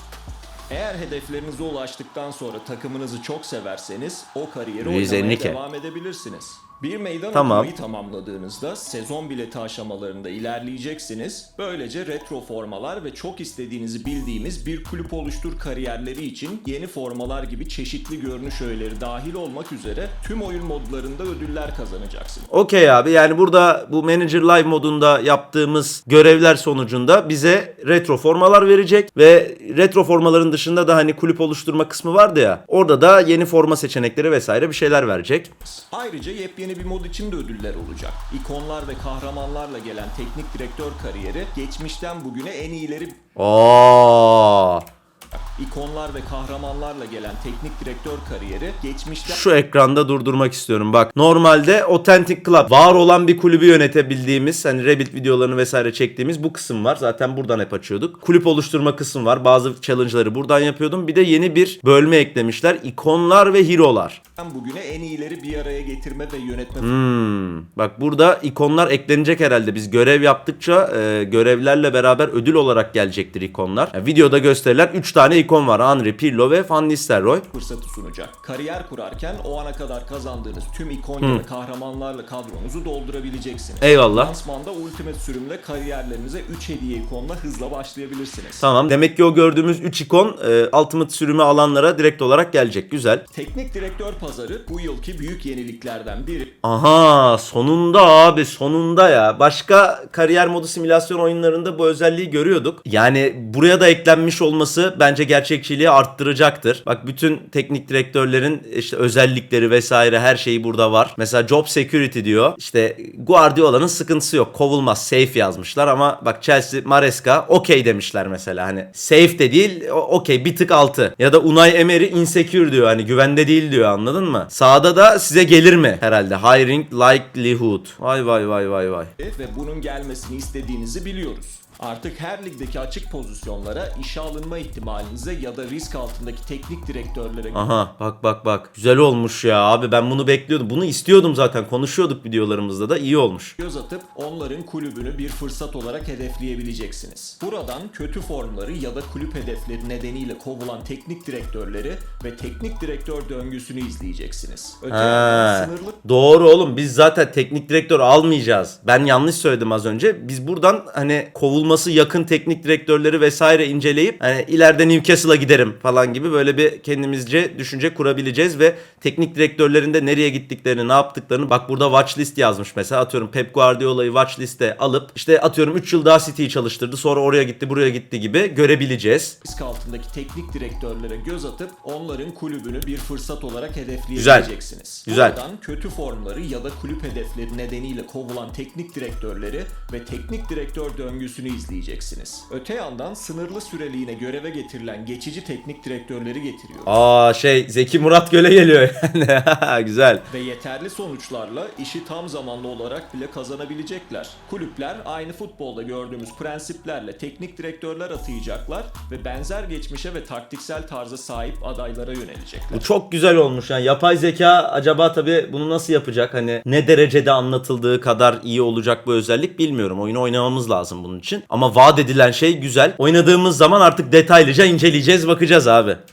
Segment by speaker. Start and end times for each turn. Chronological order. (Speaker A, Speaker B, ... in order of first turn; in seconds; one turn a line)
Speaker A: 0.7-22.5
Speaker B: 4.8-5.6
Speaker B: 7.3-7.7
Speaker B: 22.5-35.5
Speaker A: 35.7-43.2
Speaker B: 43.4-44.9
Speaker A: 45.3-49.4
Speaker B: 49.2-64.2
Speaker A: 64.4-67.0
Speaker B: 66.8-77.5
Speaker A: 77.5-88.7
Speaker B: 83.8-84.3
Speaker B: 88.6-93.2
Speaker A: 93.3-96.5
Speaker B: 96.6-129.1
Speaker A: 129.2-137.7
Speaker B: 137.5-143.5
Speaker A: 143.6-156.0
Speaker B: 154.9-179.4
Speaker A: 179.4-197.0
Speaker B: 184.2-184.5
Speaker B: 185.1-185.4
Speaker B: 196.8-200.2
Speaker A: 200.3-212.9
Speaker B: 212.7-226.0